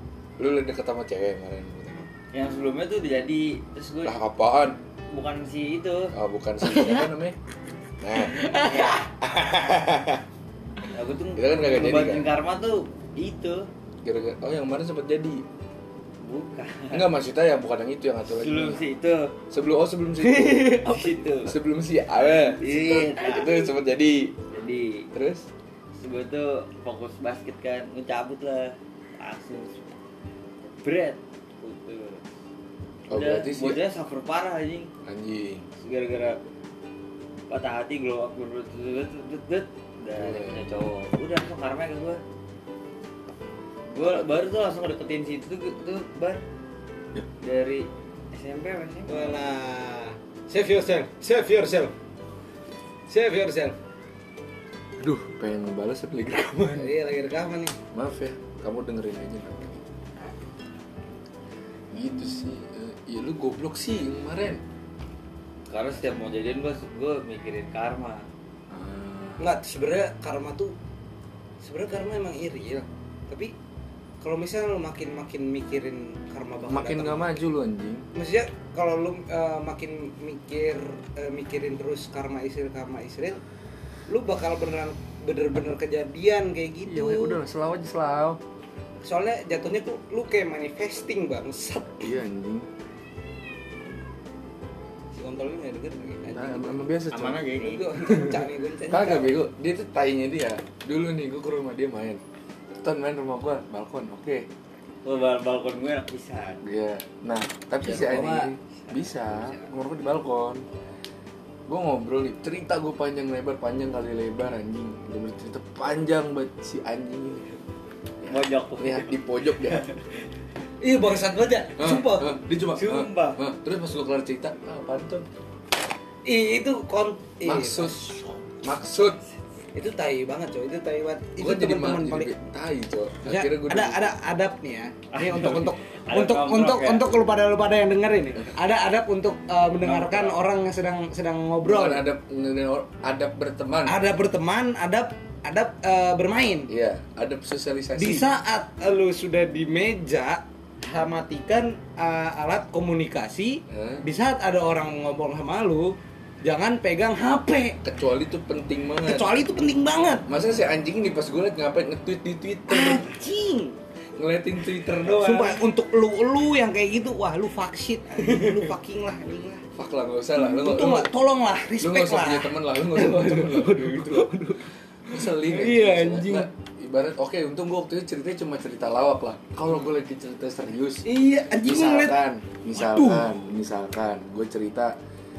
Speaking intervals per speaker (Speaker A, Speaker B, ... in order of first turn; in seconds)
Speaker A: 0.4-2.1, 4.0-4.8, 6.1-7.4, 8.0-10.2, 11.3-12.3, 14.0-15.4, 16.9-18.8, 19.5-24.4, 25.1-25.5, 33.1-33.8, 35.0-35.7, 40.2-40.7, 55.0-56.9, 57.9-59.8, 61.9-64.6, 68.7-69.5, 76.7-78.0, 86.9-88.4, 92.0-92.7, 96.3-97.5, 98.9-102.2, 102.8-104.5, 106.6-110.6, 111.7-117.6, 118.2-119.8, 121.8-125.2, 127.4-129.2, 131.4-134.1, 139.8-140.4, 141.6-144.0, 146.7-148.3, 153.7-154.0, 157.8-159.3, 160.3-163.1, 164.2-165.6, 169.7-171.1, 171.8-174.5, 175.1-184.9
Speaker B: 2.3-4.1, 5.1-6.1, 8.5-9.1, 10.9-13.7, 16.2-17.1, 18.2-19.3, 20.5-21.6, 22.3-23.7, 24.5-25.1, 26.0-29.8, 30.8-32.3, 33.1-34.9, 35.8-36.4, 37.5-42.2, 43.9-46.4, 47.4-49.4, 65.7-68.3, 97.1-97.9, 105.0-106.6, 118.2-120.0, 122.7-123.4, 135.1-137.1
Speaker C: 6.7-7.0, 8.2-9.0, 20.4-20.9, 49.1-51.9, 53.1-53.8, 56.7-57.8, 69.4-70.7, 71.6-73.5, 74.2-77.3, 78.1-83.4, 84.1-87.4, 89.0-92.2, 95.1-96.9, 97.6-99.4, 107.8-108.5, 120.8-122.4, 126.2-128.1, 129.7-132.3, 133.2-142.1, 143.8-146.7, 147.9-157.8, 159.0-160.2, 162.7-163.8, 165.0-169.6, 170.3-176.5, 181.0-182.2, 182.7-183.3